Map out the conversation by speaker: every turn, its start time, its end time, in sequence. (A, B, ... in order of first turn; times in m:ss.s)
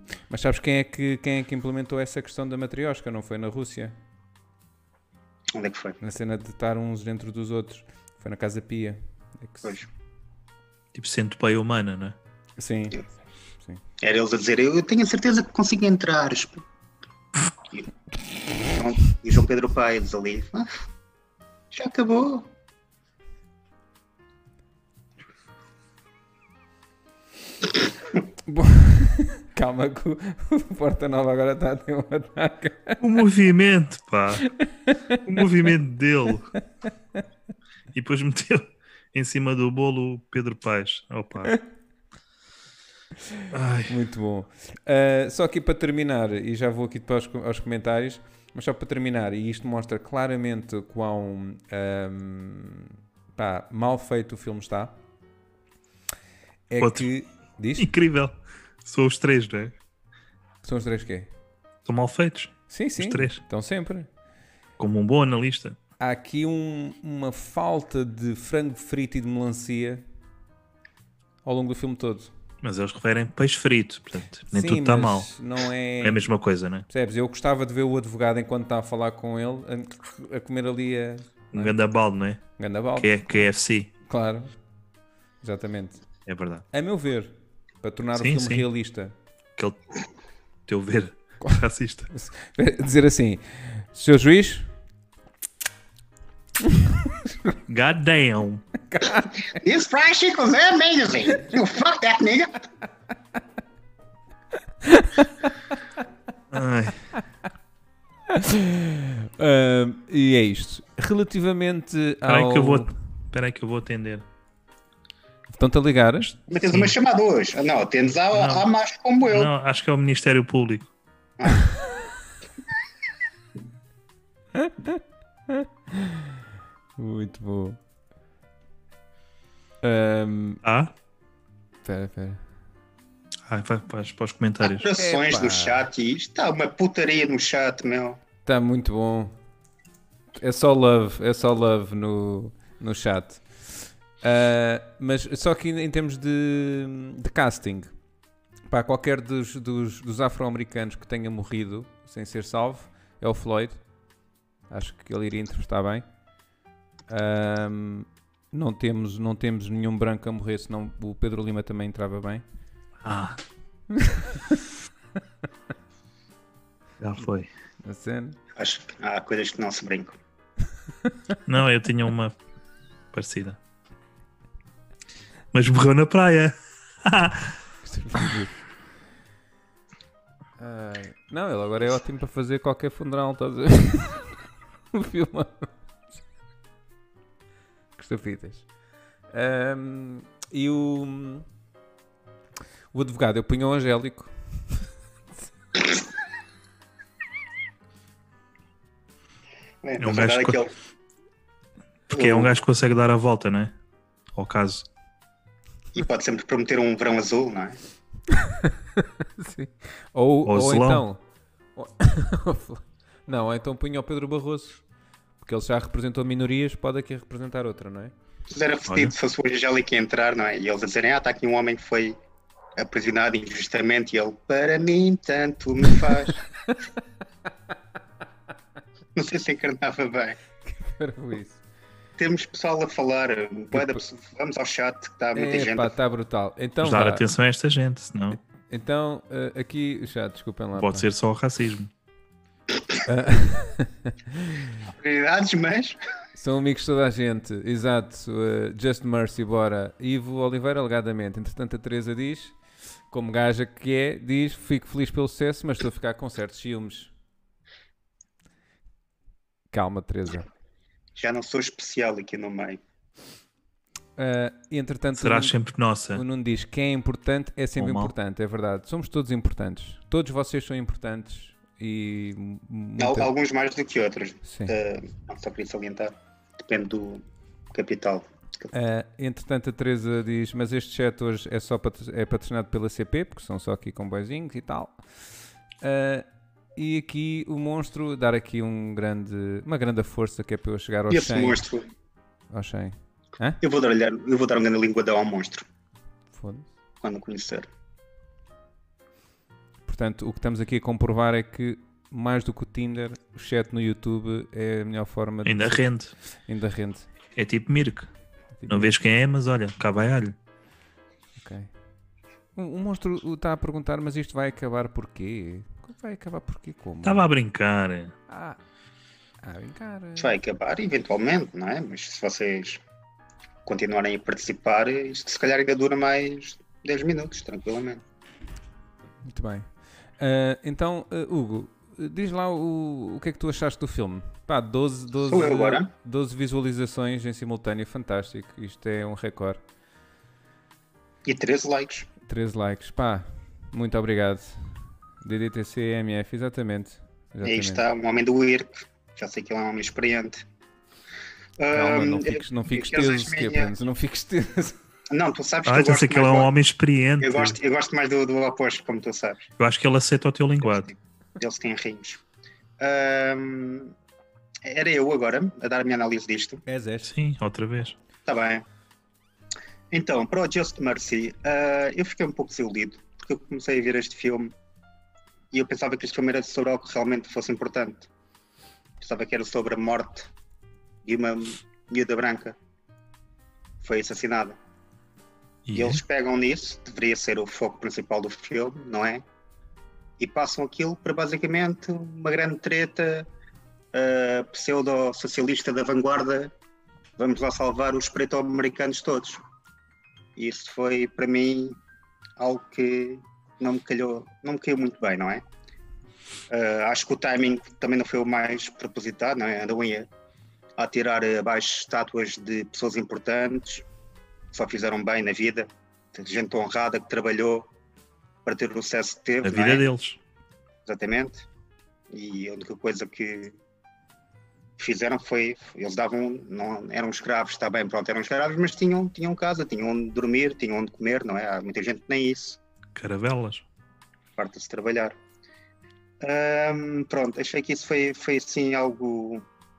0:00.3-0:04.0 A
0:05.5-0:06.0 B
0:06.0-0:09.8 A
0:10.9-0:12.2 C
0:12.6-0:13.0 A
0:14.0-0:16.6 B
0:18.7-0:20.7 B
0:21.7-0:22.5 B
0:28.4-0:33.0 A
0:33.0-0:34.5 C
0:34.4-0:35.4 A
0:35.2-0:36.5 C
0:37.9-0:41.6 C
0:43.3-0:55.0 A
0:43.5-0:44.0 C
0:56.7-0:57.9 A
0:56.8-0:57.1 C
0:57.8-0:59.7 C
1:00.6-1:01.3 A
1:01.8-1:03.4 C
1:02.7-1:04.1 A
1:04.8-1:05.8 C
1:06.0-1:10.0 A
1:11.4-1:12.3 A
1:12.6-1:15.3 C
1:14.5-1:16.2 A
1:16.0-1:16.9 C
1:16.9-1:21.7 A
1:21.5-1:22.4 C
1:22.6-1:23.3 A
1:23.0-1:23.9 C
1:24.1-1:24.5 A
1:25.4-1:26.0 A
1:26.3-1:26.6 C
1:26.7-1:29.1 A
1:28.2-1:28.6 C
1:30.7-1:32.1 C
1:32.1-1:34.7 A
1:36.6-1:37.5 A
1:37.7-1:38.6 C
1:38.9-1:39.4 A
1:39.4-1:42.6 B
1:44.8-1:45.3 A
1:46.5-1:47.1 C
1:48.3-1:52.9 A
1:52.2-1:54.2 C
1:55.5-1:56.4 A
1:56.5-1:59.5 B
1:56.6-1:56.9 C
1:58.3-1:58.7 C
1:59.3-2:00.9 C
2:01.4-2:01.6 B
2:04.5-2:06.3 A
2:07.0-2:07.8 A
2:09.8-2:10.6 A
2:10.6-2:10.9 C
2:11.8-2:12.4 A
2:13.5-2:14.9 C
2:14.6-2:18.2 B
2:15.0-2:15.8 A
2:18.4-2:19.3 A
2:20.4-2:27.9 A
2:28.7-2:33.8 A
2:34.7-2:36.0 A
2:37.1-2:42.4 A
2:43.0-2:43.4 C
2:43.9-2:44.6 A
2:47.0-2:47.5 C
2:47.8-2:48.4 A
2:48.6-2:50.2 B
2:51.0-2:51.4 A
2:51.4-2:52.3 C
2:53.1-2:53.6 C
2:55.5-2:57.5 C
2:57.8-2:58.5 A
3:00.6-3:04.4 A
3:04.9-3:05.7 A
3:08.0-3:08.7 A
3:09.3-3:11.4 A
3:12.9-3:14.3 A
3:19.8-3:20.7 B
3:20.0-3:20.6 C
3:22.1-3:23.7 C
3:22.1-3:22.5 B
3:24.3-3:24.8 C
3:25.9-3:27.8 B
3:28.3-3:31.2 A
3:30.4-3:31.0 C
3:31.8-3:34.8 A
3:35.4-3:38.1 A
3:38.5-3:42.2 B
3:38.9-3:39.1 C
3:42.8-3:46.4 B
3:49.1-3:50.4 B
3:50.6-3:51.6 A
3:52.2-3:55.9 B
3:53.7-3:54.0 A
3:55.3-3:57.2 A
3:56.8-3:58.4 C
3:58.7-4:01.0 A
4:00.8-4:01.9 C
4:03.0-4:04.7 A
4:04.8-4:06.0 B
4:06.4-4:12.6 A
4:13.1-4:17.1 A
4:19.7-4:20.5 A
4:21.2-4:22.8 B
4:24.2-4:25.5 A
4:25.2-4:26.2 C
4:26.1-4:33.3 A
4:27.8-4:28.1 C
4:33.0-4:38.7 B
4:34.4-4:34.7 A
4:38.7-4:45.0 A
4:45.8-4:51.6 A
4:51.1-4:51.9 B
4:52.5-4:53.6 A
4:53.6-4:55.6 B
4:56.3-4:56.7 A
4:57.0-4:57.7 B
4:59.9-5:05.8 A
5:05.4-5:06.1 C
5:06.5-5:07.1 A
5:07.4-5:08.1 C
5:08.6-5:08.9 A
5:08.7-5:10.4 C
5:11.4-5:11.7 A
5:12.6-5:17.2 A
5:17.0-5:18.1 C
5:18.3-5:18.6 A
5:19.4-5:20.4 A
5:20.2-5:22.8 B
5:23.6-5:28.0 B
5:29.2-5:39.6 A
5:35.3-5:35.9 B
5:41.2-5:42.1 B
5:42.3-5:47.8 A
5:47.4-5:50.4 B
5:51.6-5:53.7 B
5:51.7-5:54.8 A
5:55.1-5:56.5 B
5:55.6-5:57.6 C
5:57.2-5:59.5 B
5:59.6-6:00.9 C
6:00.7-6:02.2 B
6:02.8-6:03.9 B
6:04.6-6:06.6 B
6:06.6-6:07.1 A
6:07.0-6:07.9 C
6:08.2-6:08.6 B
6:09.9-6:14.5 B
6:15.5-6:18.1 B
6:19.0-6:20.3 B
6:21.0-6:22.6 B
6:23.8-6:24.6 B
6:25.6-6:26.0 C
6:25.7-6:29.2 B
6:30.2-6:33.3 B
6:33.9-6:36.5 B
6:37.2-6:39.4 B
6:40.4-6:41.8 B
6:42.4-6:45.4 B
6:46.5-6:50.1 B
6:50.8-6:53.8 B
6:54.5-6:57.7 B
6:58.4-6:59.8 B
6:59.4-7:00.2 C
7:00.8-7:01.5 B
7:02.1-7:03.6 B
7:04.8-7:12.6 B
7:12.9-7:13.6 C
7:14.4-7:15.2 B
7:16.2-7:19.4 B